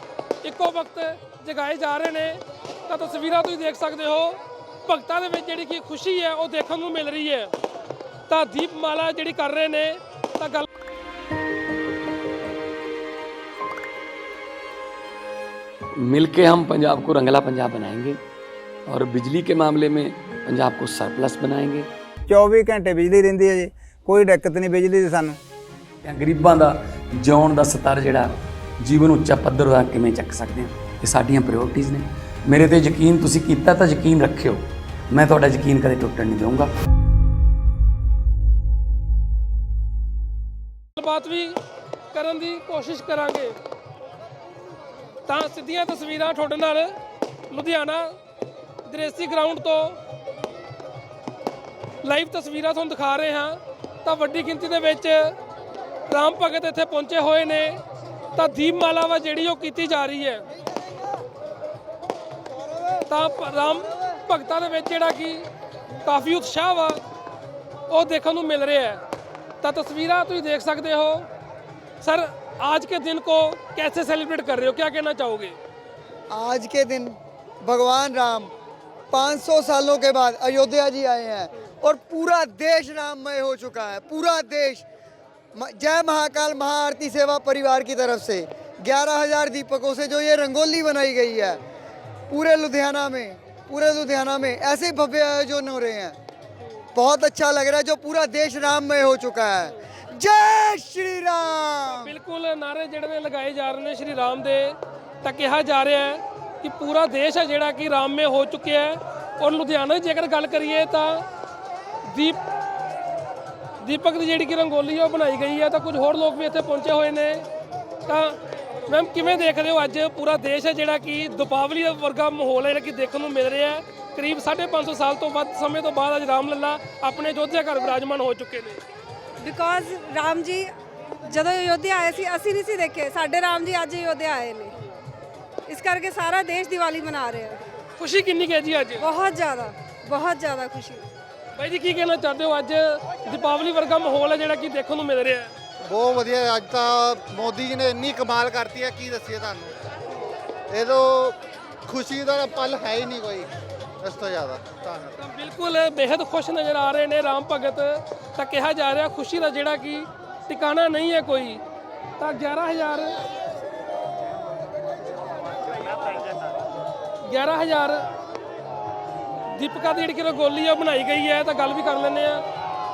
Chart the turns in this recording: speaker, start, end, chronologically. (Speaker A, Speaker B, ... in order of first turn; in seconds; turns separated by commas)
Speaker A: 0.4-7.5, Speaker A: 8.3-10.7, Speaker B: 16.0-18.2, Speaker B: 18.9-21.9, Speaker C: 22.3-25.4, Speaker B: 26.0-36.7, Speaker A: 41.0-41.6, Speaker A: 42.1-43.5, Speaker A: 45.2-47.0, Speaker A: 47.5-48.1, Speaker A: 48.9-50.0, Speaker A: 52.0-55.4, Speaker A: 56.1-57.8, Speaker A: 58.3-60.4, Speaker A: 63.1-65.5, Speaker A: 66.0-67.0, Speaker A: 67.9-69.0, Speaker A: 69.6-71.3, Speaker A: 72.0-75.6, Speaker D: 76.3-78.5, Speaker D: 79.1-84.8, Speaker D: 85.6-91.6, Speaker D: 92.3-96.2, Speaker D: 96.9-102.1, Speaker A: 101.9-111.2, Speaker A: 112.1-112.4, Speaker A: 113.8-117.5, Speaker A: 118.1-128.8, Speaker E: 129.4-130.7, Speaker E: 131.2-134.7, Speaker E: 135.7-137.6, Speaker A: 138.0-139.1, Speaker E: 139.0-141.1, Speaker A: 141.6-145.5, Speaker F: 145.8-149.7, Speaker F: 150.7-153.5, Speaker F: 154.0-155.1, Speaker A: 155.2-161.6, Speaker A: 162.2-163.2, Speaker A: 167.2-168.0, Speaker A: 169.5-172.4